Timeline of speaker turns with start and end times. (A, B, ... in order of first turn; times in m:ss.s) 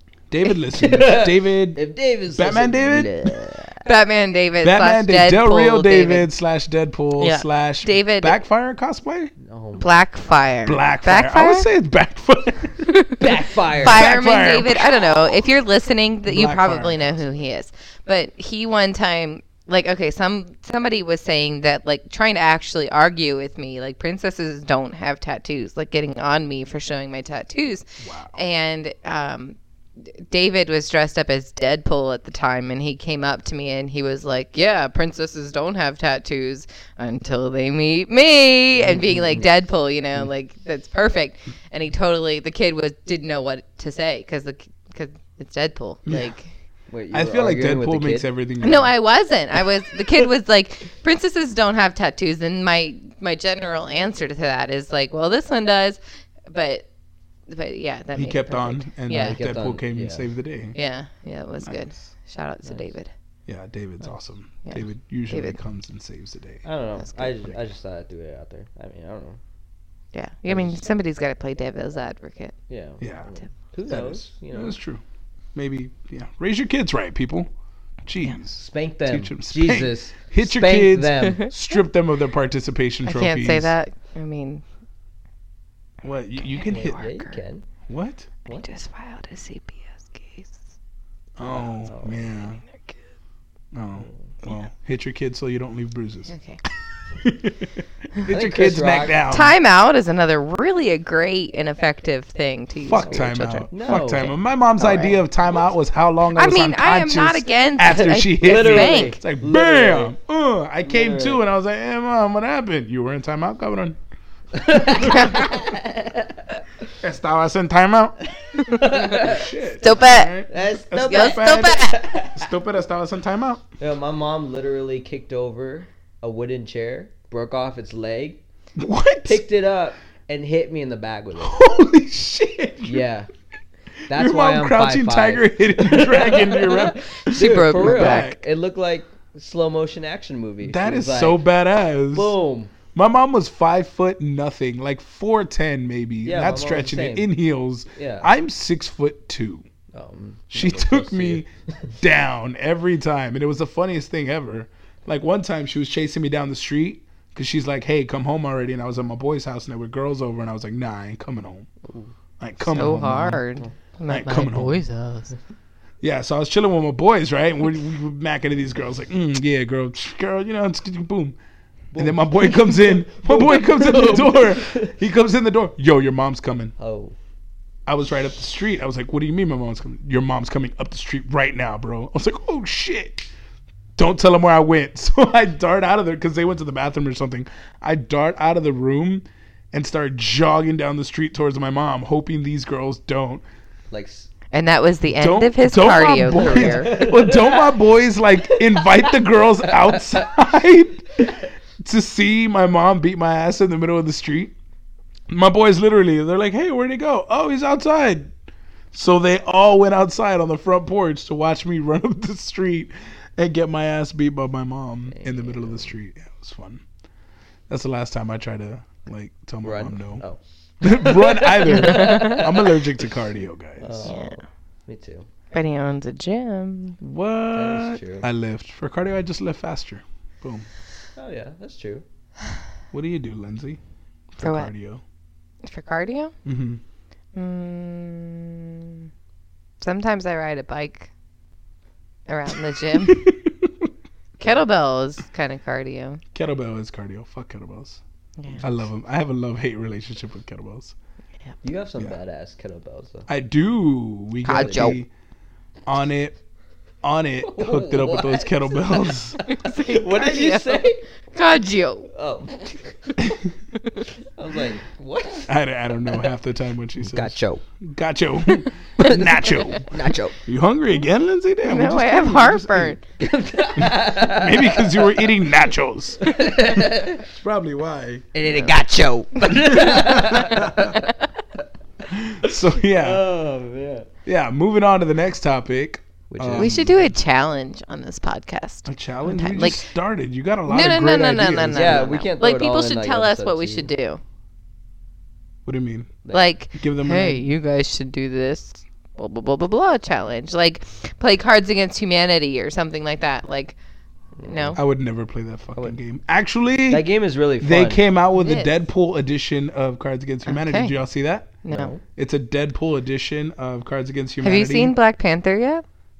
0:00.3-0:01.8 A
0:00.7-0:03.8 B
0:02.3-0:03.4 A
0:03.8-0:06.3 C
0:04.6-0:09.3 A
0:07.2-0:08.4 C
0:09.4-0:10.0 B
0:09.8-0:11.7 C
0:10.6-0:13.1 A
0:12.9-0:13.2 C
0:13.2-0:14.1 B
0:13.8-0:15.4 A
0:13.8-0:29.6 C
0:16.3-0:17.1 A
0:28.0-0:28.4 A
0:30.2-0:46.5 C
0:38.8-0:39.5 B
0:46.1-0:46.3 A
0:46.9-0:48.3 B
0:47.1-0:48.9 A
0:48.6-0:56.9 C
0:57.5-0:59.4 C
0:58.2-1:00.8 A
0:59.1-1:00.3 B
1:00.8-1:03.1 C
1:01.6-1:02.1 A
1:02.6-1:02.9 B
1:03.5-1:06.6 A
1:04.7-1:05.6 C
1:06.6-1:09.4 B
1:10.1-1:12.5 C
1:10.5-1:10.8 B
1:12.7-1:14.8 B
1:13.0-1:13.3 A
1:13.9-1:15.0 A
1:15.6-1:17.5 A
1:18.1-1:23.7 A
1:18.6-1:21.5 B
1:23.0-1:24.6 C
1:26.0-1:27.0 A
1:26.4-1:27.4 C
1:26.7-1:27.7 B
1:27.9-1:28.3 A
1:28.5-1:30.6 C
1:31.4-1:32.6 A
1:31.4-1:32.3 B
1:33.7-1:36.3 A
1:36.3-1:36.6 C
1:37.2-1:39.6 A
1:38.2-1:39.2 B
1:39.3-1:44.0 C
1:42.8-1:54.0 A
1:43.0-1:44.4 B
1:44.8-1:45.1 C
1:46.4-1:49.2 C
1:48.4-1:50.1 B
1:50.8-1:51.4 B
1:54.5-1:56.6 B
1:55.0-1:55.4 C
1:55.0-1:55.5 A
1:57.0-1:58.2 A
1:58.6-1:59.5 B
1:59.0-2:03.6 A
1:59.8-2:00.3 C
2:00.5-2:02.5 B
2:01.1-2:02.0 C
2:03.8-2:08.4 B
2:08.8-2:09.4 A
2:09.2-2:11.6 B
2:11.4-2:13.1 A
2:12.9-2:13.3 B
2:14.1-2:18.4 A
2:14.1-2:21.4 B
2:17.3-2:18.3 C
2:20.6-2:22.3 A
2:22.1-2:22.7 B
2:23.0-2:29.6 A
2:26.2-2:27.3 B
2:28.0-2:28.3 B
2:29.9-2:31.9 B
2:30.5-2:31.5 A
2:32.0-2:41.7 A
2:41.8-2:42.1 B
2:42.4-2:43.4 A
2:42.7-2:45.3 C
2:44.1-2:44.8 A
2:46.0-2:51.4 A
2:51.9-2:55.0 B
2:52.0-2:56.7 A
2:56.8-2:57.2 B
2:57.9-3:03.3 A
3:04.0-3:13.4 A
3:13.9-3:14.3 B
3:14.5-3:17.0 C
3:15.1-3:24.5 A
3:16.1-3:17.8 B
3:18.4-3:20.3 B
3:25.3-3:28.3 A
3:28.9-3:36.8 A
3:35.1-3:35.9 B
3:37.7-3:40.2 A
3:39.6-3:42.9 B
3:40.8-3:44.1 A
3:41.8-3:42.4 C
3:43.8-3:45.3 B
3:44.0-3:44.4 C
3:45.5-3:47.0 C
3:47.0-3:50.7 A
3:47.5-3:48.3 B
3:51.2-3:52.0 B
3:52.9-3:53.8 A
3:54.3-3:55.0 A
3:54.4-3:54.7 C
3:55.6-3:56.3 C
3:56.4-3:56.8 A
3:57.4-3:59.1 C
3:59.8-4:01.1 C
4:02.3-4:03.3 C
4:02.9-4:03.9 A
4:04.4-4:06.2 C
4:06.3-4:08.0 A
4:08.4-4:08.7 C
4:08.6-4:11.0 A
4:11.6-4:13.3 B
4:13.3-4:15.1 A
4:14.4-4:15.0 C
4:14.5-4:15.0 B
4:15.9-4:16.4 A
4:17.0-4:19.4 A
4:17.4-4:21.0 B
4:19.5-4:22.1 C
4:22.1-4:23.3 B
4:24.3-4:25.5 B
4:25.5-4:29.9 A
4:27.0-4:27.6 B
4:29.0-4:30.4 B
4:30.5-4:33.0 A
4:31.6-4:33.0 C
4:33.2-4:35.4 B
4:33.8-4:36.3 A
4:36.2-4:37.3 B
4:37.3-4:38.2 A
4:38.3-4:41.6 B
4:39.5-4:41.0 A
4:42.1-4:43.2 A
4:42.8-4:44.1 B
4:44.2-4:47.0 A
4:46.3-4:47.0 B
4:46.6-4:49.8 C
4:48.9-4:52.1 A
4:50.7-4:54.2 C
4:51.7-4:53.9 B
4:55.7-4:56.2 A
4:56.2-4:56.5 B
4:56.3-5:03.8 C
4:56.8-4:57.5 A
5:04.4-5:04.8 B
5:04.4-5:04.8 C
5:04.8-5:07.1 A
5:06.9-5:08.0 B
5:07.6-5:14.9 A
5:08.4-5:08.7 C
5:10.5-5:10.9 C
5:11.6-5:11.9 C
5:11.7-5:12.0 B
5:14.4-5:15.8 C